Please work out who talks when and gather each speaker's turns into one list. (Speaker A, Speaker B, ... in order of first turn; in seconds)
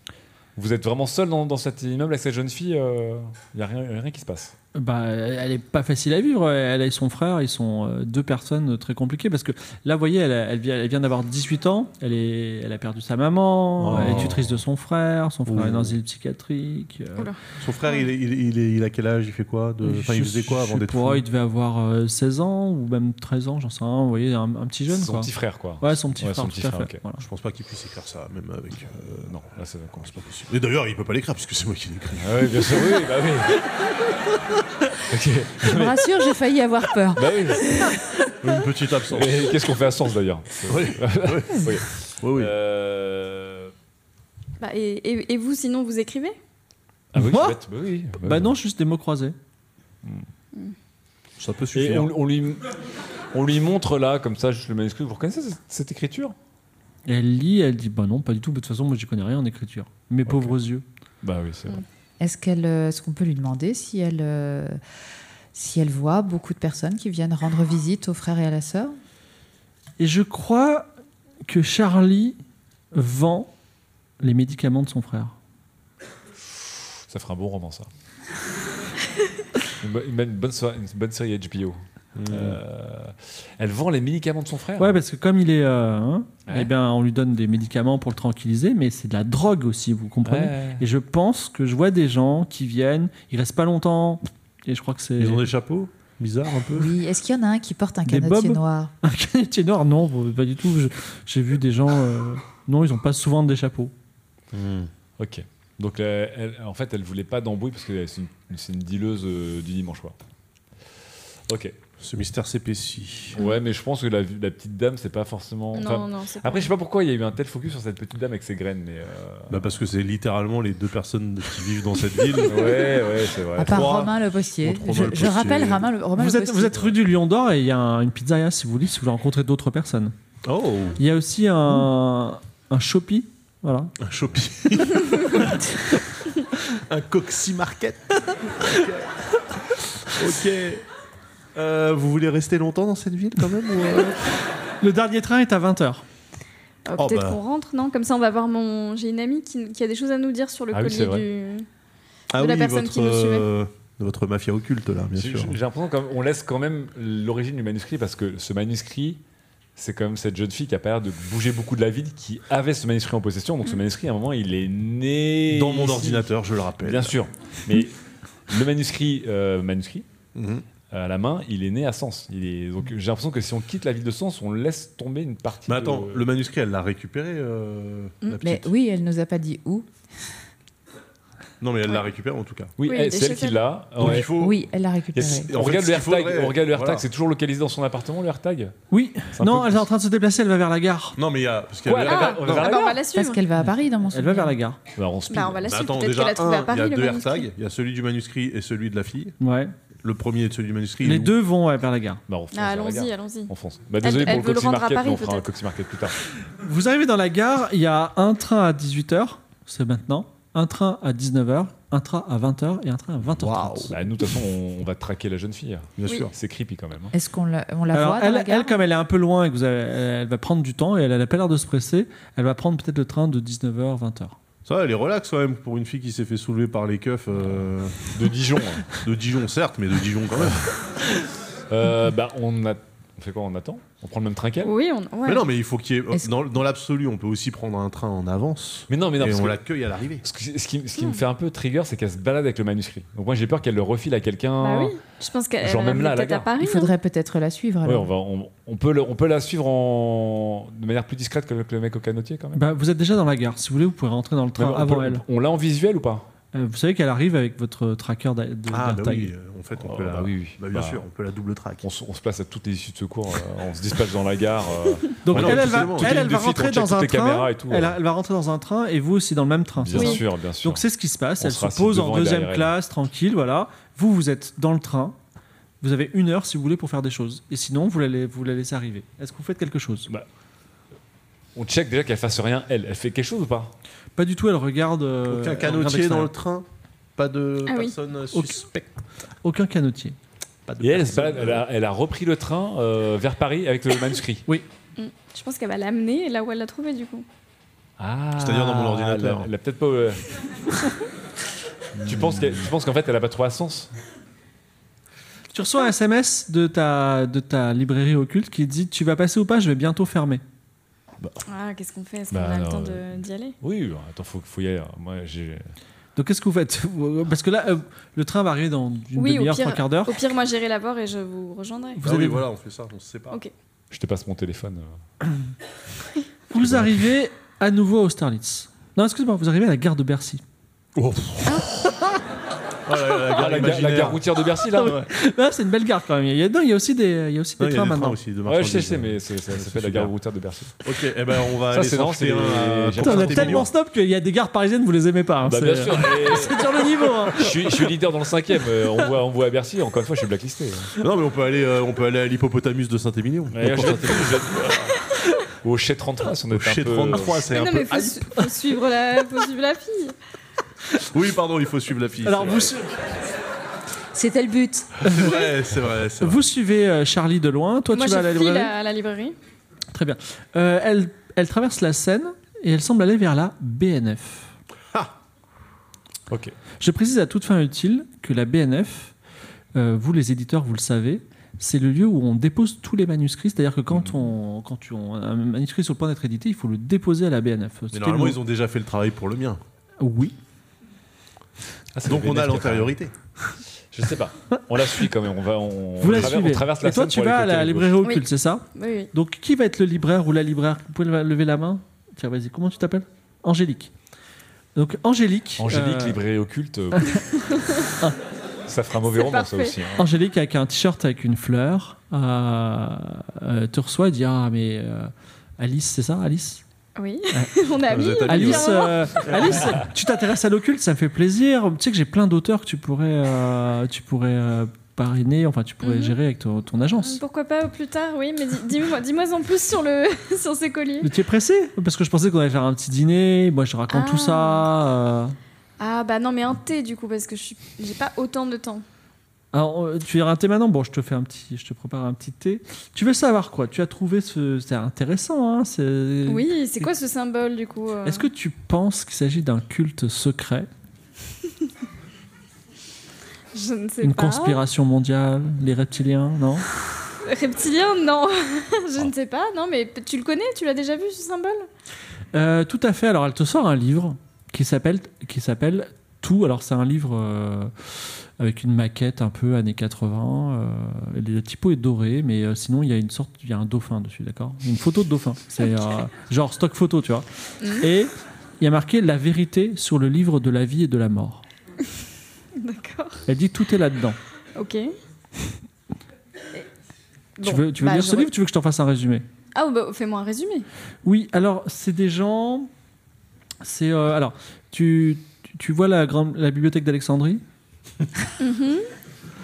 Speaker A: 0.6-4.5, 13.9-14.4, 24.9-27.0, 29.0-30.1, 32.2-33.7, 35.0-36.1, 37.1-38.0, 39.1-43.7, 47.1-48.6, 51.7-52.8, 53.3-56.4, 60.3-60.5, 61.2-61.8, 77.1-77.9, 79.8-85.0, 86.5-86.7, 90.2-90.8, 105.2-110.2, 111.5-111.8, 113.3-119.7, 122.4-124.0, 150.7-151.3, 155.2-159.2, 159.8-166.3, 166.8-167.9, 168.5-170.1, 170.9-176.3, 182.8-184.3, 185.1-188.8, 189.3-189.8, 191.8-193.0, 194.9-195.6, 202.3-206.2, 213.9-217.1, 227.4-229.0, 231.7-234.7, 238.9-239.6, 240.2-244.9, 245.6-246.5, 247.8-252.7, 254.6-256.3, 259.8-261.1, 261.8-268.0, 269.8-270.9, 271.4-272.7, 281.6-283.7, 290.8-294.5, 298.0-300.3, 302.0-303.9, 312.3-315.7, 323.9-324.9, 326.6-327.0, 333.3-335.0, 338.4-340.8, 341.7-343.7, 345.4-346.8, 347.3-350.9, 353.5-355.0, 355.6-357.5, 376.3-376.6, 391.9-392.9, 393.9-398.0, 405.6-407.4, 408.7-410.1
Speaker B: 4.8-17.3, 19.8-27.3, 47.1-47.6, 48.2-49.4, 57.1-60.8, 70.0-70.9, 71.5-72.4, 72.9-73.5, 74.2-75.3, 84.8-95.5, 98.1-103.9, 126.2-130.2, 131.0-133.9, 144.8-146.0, 188.9-191.2, 194.1-194.8, 199.4-199.8, 201.0-202.2, 206.6-214.0, 217.9-224.4, 252.5-255.2, 256.5-259.3, 265.2-275.2, 275.8-280.1, 284.2-286.3, 288.3-288.7, 289.4-290.2, 305.5-310.4, 316.2-320.2, 322.0-322.5, 326.5-330.4, 334.7-338.2, 343.0-347.4, 362.2-362.9, 365.0-365.4, 366.2-368.7, 369.9-374.5, 376.8-379.1, 379.8-388.4, 390.0-390.4, 396.0-403.9, 404.8-406.2, 410.0-416.6, 418.3-427.2, 431.0-435.4, 439.5-446.9, 448.1-450.7, 454.0-456.6, 462.3-477.3, 477.8-481.4, 483.3-484.2, 487.4-489.2, 491.0-492.7, 493.6-497.4
Speaker C: 13.8-14.5, 15.5-16.0, 17.6-21.2, 27.2-29.4, 30.0-33.0, 38.4-39.5, 40.7-42.5, 51.4-52.2, 82.2-82.6, 95.2-96.9, 104.5-104.9, 112.0-113.4, 119.5-122.8, 123.6-125.9, 130.4-131.0, 134.0-135.6, 136.9-139.1, 140.1-140.8, 141.6-144.2, 147.0-147.4, 152.3-155.6, 165.5-167.2, 170.3-170.6, 175.7-178.7, 181.6-182.7, 184.0-184.6, 185.5-187.1, 191.2-192.8, 195.6-199.3, 200.0-201.4, 213.3-213.9, 216.0-216.3, 224.7-228.1, 228.9-230.7, 235.2-240.2, 258.7-261.8, 265.3-266.4, 285.3-286.6, 287.2-288.9, 290.7-291.6, 298.4-299.5, 302.1-302.6, 322.0-323.4, 331.0-331.7, 332.9-334.3, 337.6-340.1, 340.8-343.7, 351.0-354.4, 356.5-358.2, 361.0-362.7, 365.0-366.4, 387.9-389.6, 392.1-393.1, 417.9-419.7
Speaker D: 35.6-37.5, 62.2-64.8, 65.5-69.0, 96.7-98.9, 123.5-126.9, 178.4-179.9, 184.0-185.5, 193.1-194.6, 217.1-218.8, 246.6-248.1, 364.1-365.0
Speaker E: 44.6-46.4, 115.7-116.7, 146.9-151.7, 152.3-153.5, 182.8-183.6, 192.0-193.4, 195.3-197.5, 202.5-205.5, 234.6-235.5, 241.0-241.2, 244.6-246.9, 269.9-270.2, 287.7-288.0, 295.0-297.2, 311.5-313.6, 319.2-322.0, 357.5-360.1, 367.9-369.4, 398.0-399.1, 407.5-407.8, 409.1-409.8, 417.0-419.6, 425.8-426.2, 427.0-431.1, 433.9-434.7, 435.8-438.9, 446.3-448.3, 453.5-454.6, 457.2-461.7, 482.6-483.2, 484.6-484.9, 487.4-488.3, 489.5-490.7, 498.4-498.9